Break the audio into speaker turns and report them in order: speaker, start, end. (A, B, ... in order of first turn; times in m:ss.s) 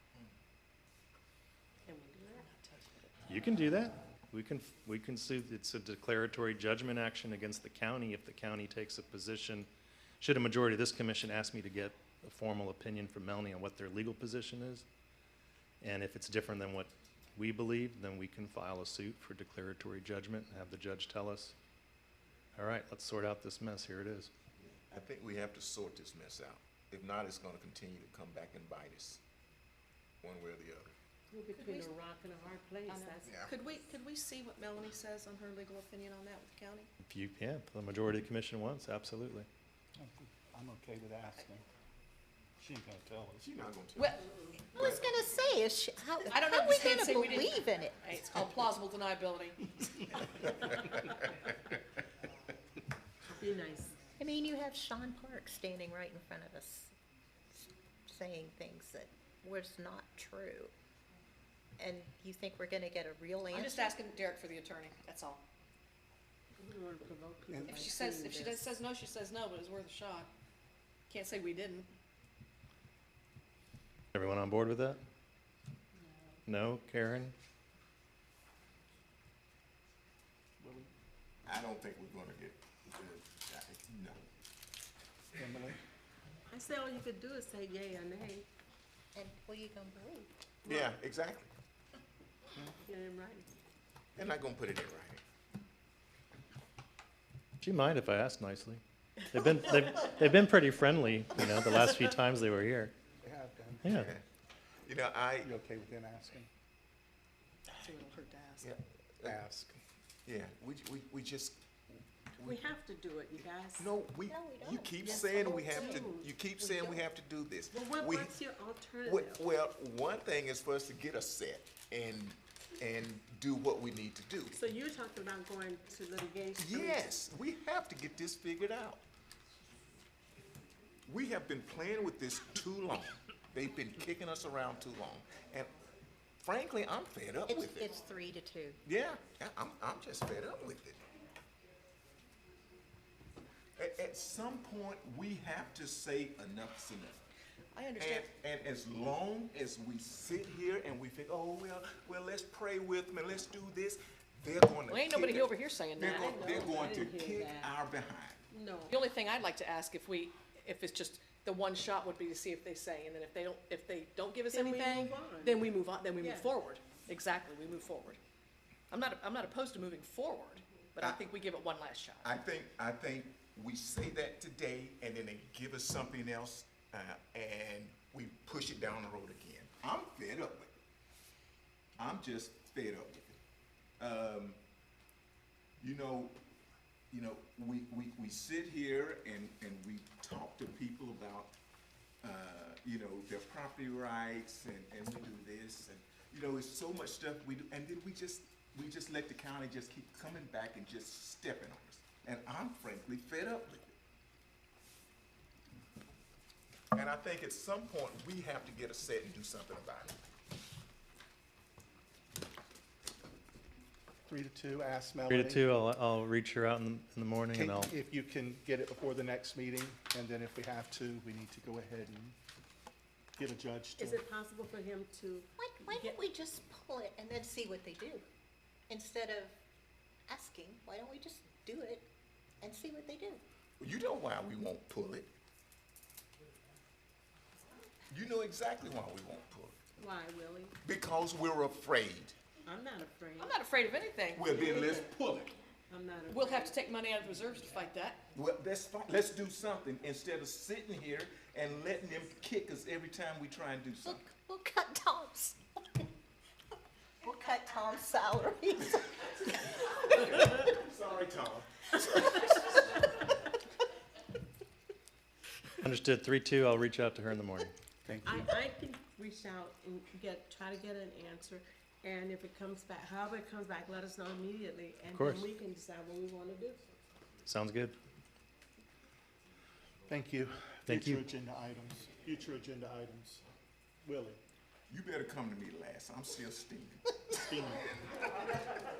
0:01.8-0:02.5 A
0:02.4-0:03.1 B
0:03.3-0:09.7 C
0:10.2-0:14.8 C
0:15.8-0:21.5 C
0:22.6-0:24.3 C
0:24.9-0:29.2 D
0:30.2-0:30.9 D
0:31.3-0:33.4 A
0:31.5-0:31.9 B
0:32.9-0:36.9 B
0:33.2-0:33.5 D
0:37.1-0:39.5 C
0:40.0-0:41.6 E
0:42.6-0:43.6 E
0:43.4-0:45.0 D
0:44.0-0:44.2 B
0:44.7-0:48.2 F
0:46.2-0:49.7 B
0:53.3-0:53.9 A
0:54.2-0:56.9 F
0:57.6-1:00.7 F
1:01.8-1:04.0 F
1:03.5-1:05.4 B
1:06.6-1:08.6 A
1:07.5-1:07.8 E
1:07.7-1:10.3 B
1:11.1-1:11.9 B
1:14.1-1:15.0 C
1:16.5-1:17.3 C
1:20.6-1:20.9 E
1:21.4-1:24.2 D
1:25.4-1:25.8 E
1:26.5-1:28.5 A
1:29.1-1:30.3 F
1:30.6-1:31.5 D
1:32.8-1:33.5 A
1:34.2-1:35.2 D
1:37.6-1:42.9 C
1:43.2-1:44.0 E
1:43.8-1:44.1 C
1:43.9-1:44.2 D
1:44.8-1:45.5 D
1:45.4-1:46.5 E
1:47.8-1:48.7 B
1:48.6-1:49.4 D
1:49.2-1:49.7 E
1:50.2-1:52.6 D
1:52.4-1:54.0 A
1:53.8-1:58.3 D
1:54.3-1:56.0 F
1:55.2-1:56.3 A
1:56.6-1:57.0 F
1:57.7-1:59.4 A
1:59.0-2:04.6 D
2:04.5-2:07.1 A
2:06.6-2:09.0 D
2:11.1-2:15.7 D
2:16.4-2:18.0 D
2:17.5-2:18.8 F
2:18.8-2:21.0 D
2:23.8-2:27.2 D
2:27.7-2:28.2 B
2:28.0-2:38.4 D
2:34.9-2:36.4 B
2:36.0-2:37.7 A
2:38.5-2:39.0 A
2:38.9-2:48.2 B
2:44.5-2:45.7 A
2:46.2-2:46.5 A
2:48.9-2:52.3 B
2:52.2-3:00.7 D
3:02.0-3:03.4 D
3:04.0-3:04.6 D
3:05.8-3:06.4 D
3:07.1-3:11.6 D
3:12.2-3:23.9 D
3:26.9-3:30.2 D
3:34.3-3:35.7 E
3:35.3-3:37.9 C
3:37.5-3:42.4 E
3:43.4-3:44.2 E
3:44.0-3:46.2 A
3:45.6-3:48.2 F
3:48.9-3:49.5 F
3:50.3-3:52.1 F
3:52.6-3:53.4 F
3:53.8-3:55.3 D
3:58.1-3:59.8 D
4:00.0-4:00.7 A
4:00.8-4:02.4 D
4:02.6-4:03.6 A
4:03.4-4:04.5 B
4:04.3-4:05.6 D
4:04.5-4:05.1 A
4:05.9-4:06.8 A
4:06.3-4:08.2 B
4:08.3-4:14.2 D
4:14.0-4:15.6 F
4:17.2-4:19.3 F
4:19.8-4:22.7 D
4:25.8-4:27.7 C
4:28.0-4:28.5 E
4:28.2-4:36.8 A
4:35.1-4:35.4 C
4:37.4-4:38.0 C
4:40.1-4:43.4 E
4:40.9-4:41.3 C
4:44.0-4:44.4 E
4:44.9-4:47.3 D
4:47.3-4:47.8 E